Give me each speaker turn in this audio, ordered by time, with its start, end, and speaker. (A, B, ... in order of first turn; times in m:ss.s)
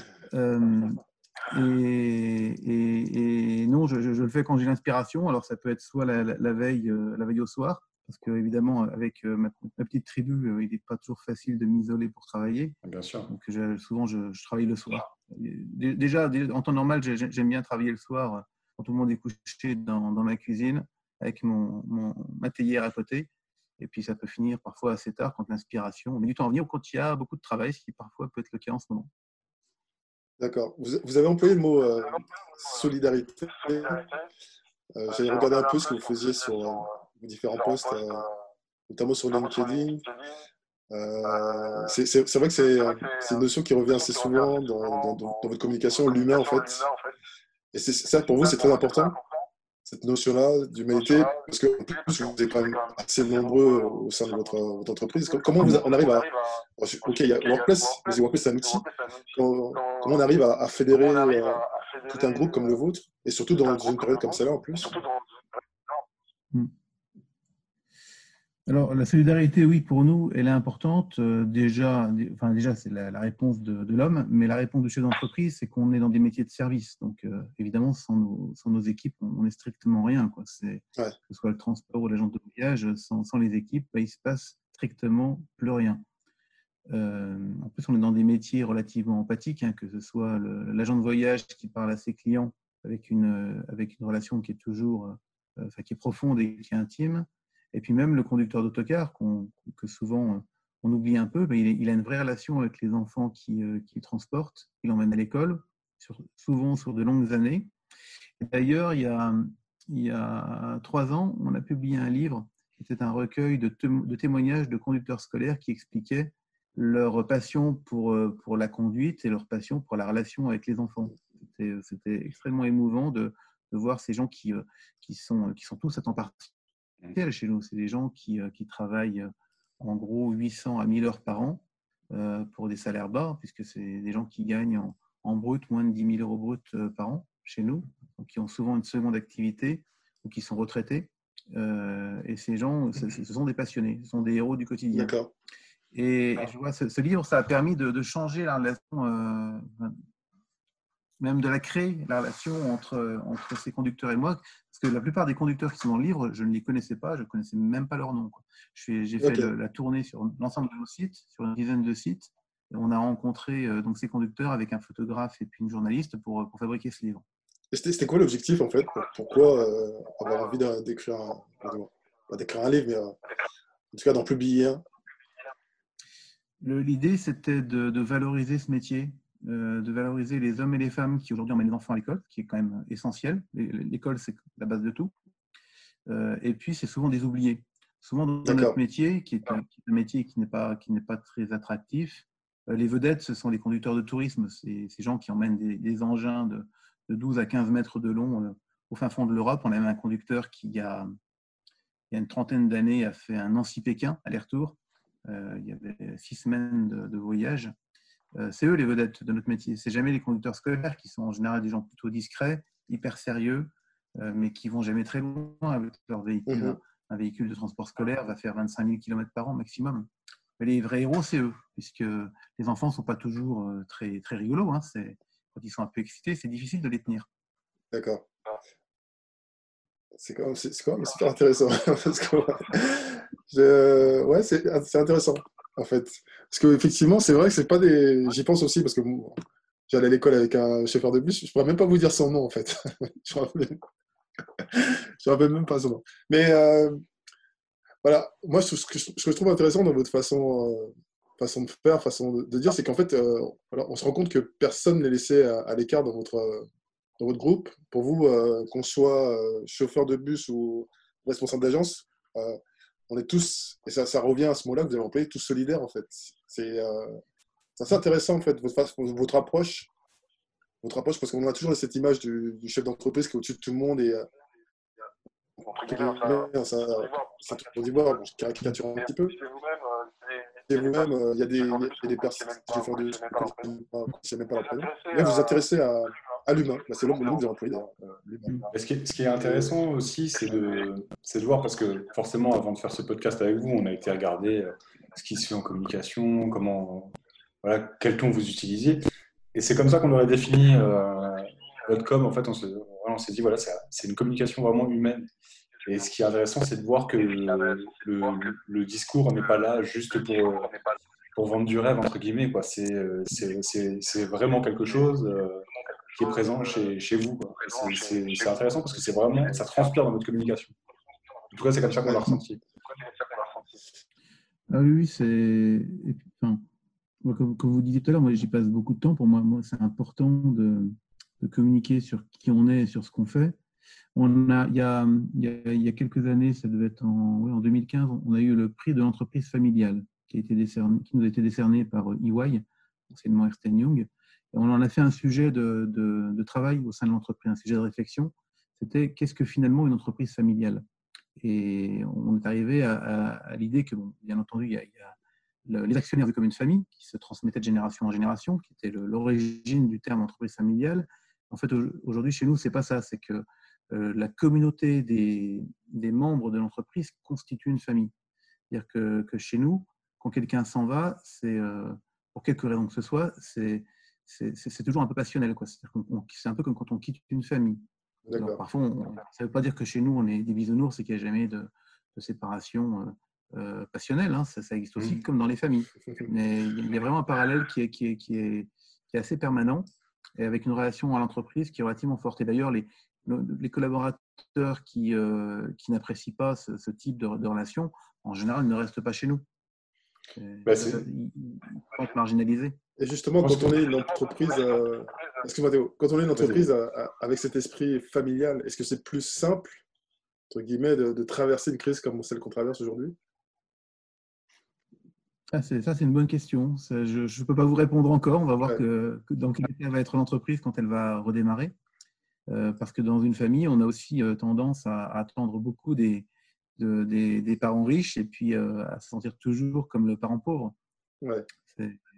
0:00.3-0:12.8 A
0:12.8-0:13.3 B
0:13.3-0:29.1 A
0:30.4-0:34.1 C
0:34.9-0:38.3 C
0:38.9-0:40.1 C
0:40.9-0:46.9 C
0:47.7-0:49.2 C
0:49.8-1:05.0 C
1:08.7-1:26.0 A
1:26.9-1:47.7 A
1:48.4-2:06.5 A
2:07.1-2:25.1 A
2:24.9-2:25.3 C
2:25.9-2:30.0 A
2:31.2-2:47.2 A
2:39.2-2:39.5 C
2:47.7-2:53.1 C
2:53.9-2:54.8 C
2:56.6-3:05.1 A
3:06.0-3:21.1 A
3:08.4-3:08.8 C
3:22.1-3:27.7 A
3:28.3-3:40.1 A
3:36.5-3:36.8 C
3:40.6-3:47.3 A
3:47.9-3:48.2 C
3:50.2-4:03.8 C
4:04.6-4:07.0 C
4:08.0-4:16.6 C
4:17.2-4:27.2 C
4:27.8-4:29.9 C
4:30.8-4:34.3 C
4:35.6-4:39.4 C
4:40.7-4:48.7 C
4:48.7-4:59.0 B
4:49.4-4:49.7 C
4:59.5-5:05.3 B
5:05.8-5:10.7 B
5:11.3-5:20.7 B
5:21.5-5:22.6 B
5:24.7-5:26.6 A
5:27.2-5:33.6 A
5:34.1-5:50.8 A
5:51.4-6:08.1 A
6:08.7-6:29.9 A
6:18.3-6:18.6 C
6:30.4-6:39.4 A
6:40.4-6:42.8 A
6:40.6-6:41.0 B
6:43.0-6:49.8 C
6:43.4-6:43.7 B
6:50.5-6:53.2 C
6:55.5-7:01.7 A
7:02.5-7:10.7 A
7:11.7-7:12.0 A